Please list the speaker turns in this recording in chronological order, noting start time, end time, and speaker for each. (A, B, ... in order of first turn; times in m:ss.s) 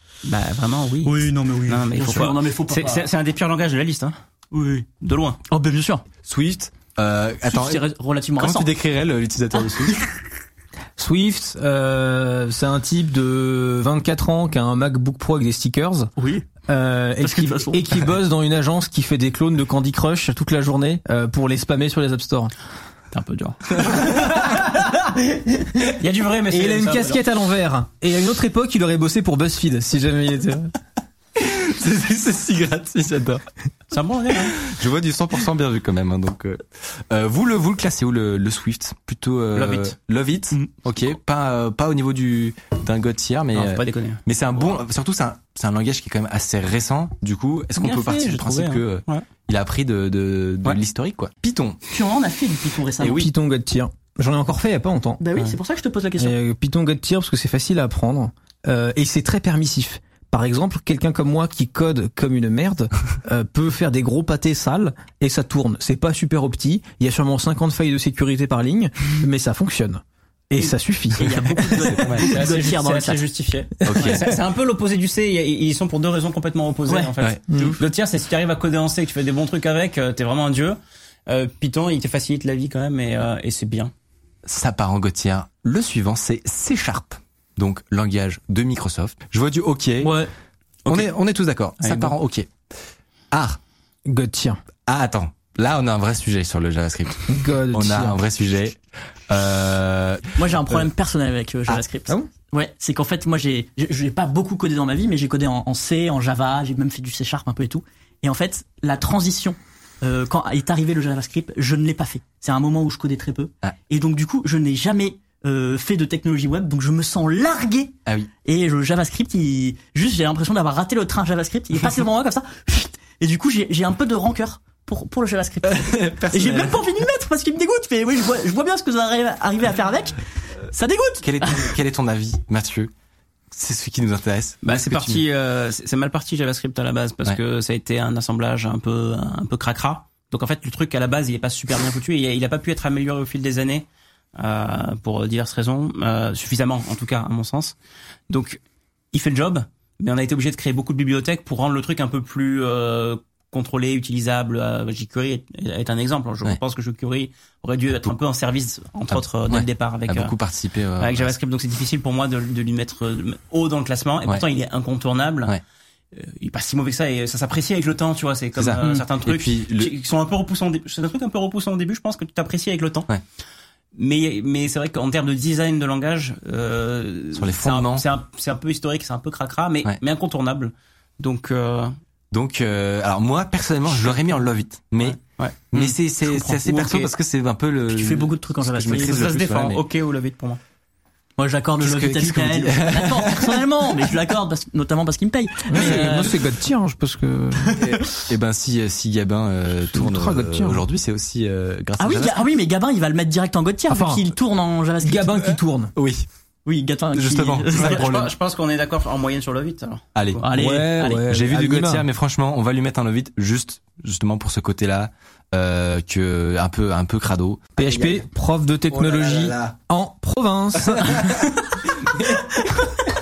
0:00.2-0:04.2 A
0:01.0-0:03.1 B
0:04.5-0:04.8 B
0:05.0-0:05.4 A
0:05.5-0:06.0 B
0:06.2-0:07.8 C
0:07.4-0:08.7 B
0:08.4-0:10.0 C
0:11.0-0:16.1 D
0:16.2-0:16.5 B
0:16.7-0:22.5 D
0:17.2-0:17.9 B
0:23.1-0:24.3 A
0:24.4-0:24.8 C
0:25.8-0:27.2 A
0:26.5-0:30.7 D
0:31.4-0:33.4 C
0:33.9-0:34.5 A
0:34.5-0:51.8 C
0:39.6-0:40.0 A
0:43.5-0:44.8 A
0:47.8-0:49.3 A
0:51.9-0:53.3 B
0:53.0-0:53.3 C
0:53.1-0:55.2 D
0:55.2-0:56.4 B
0:56.2-1:12.4 D
1:11.2-1:13.2 B
1:11.8-1:12.3 C
1:12.2-1:23.9 A
1:13.8-1:14.3 D
1:13.8-1:14.2 C
1:17.5-1:17.8 D
1:24.4-1:30.1 C
1:30.0-1:30.3 B
1:30.9-1:32.5 C
1:31.8-1:32.1 A
1:33.3-1:33.6 C
1:34.0-1:34.6 D
1:34.8-1:38.8 C
1:37.3-1:38.2 D
1:39.3-1:40.9 C
1:40.4-1:57.9 B
1:58.4-2:11.7 B
2:05.7-2:06.9 C
2:11.2-2:12.9 C
2:13.5-2:15.2 C
2:14.6-2:27.7 A
2:28.3-2:28.6 A
2:29.1-2:40.3 A
2:39.1-2:41.3 C
2:41.0-2:45.6 A
2:46.1-2:53.1 A
2:48.6-2:49.9 C
2:48.8-2:49.0 B
2:53.9-3:01.9 A
2:57.3-2:58.0 C
3:02.3-3:05.2 C
3:03.9-3:07.1 A
3:05.7-3:09.8 C
3:07.9-3:09.3 B
3:08.8-3:10.6 A
3:11.4-3:16.4 B
3:11.8-3:13.5 C
3:15.7-3:17.8 D
3:16.0-3:16.2 A
3:17.8-3:22.4 C
3:19.9-3:20.8 D
3:22.0-3:25.4 B
3:23.9-3:24.3 D
3:25.0-3:25.9 D
3:26.0-3:26.3 C
3:26.6-3:28.1 B
3:27.1-3:28.3 C
3:27.7-3:30.5 A
3:30.2-3:30.4 C
3:30.4-3:31.3 B
3:30.5-3:32.0 D
3:31.3-3:38.2 C
3:37.8-3:41.4 D
3:38.9-3:39.7 C
3:40.8-3:41.6 C
3:42.1-3:42.7 C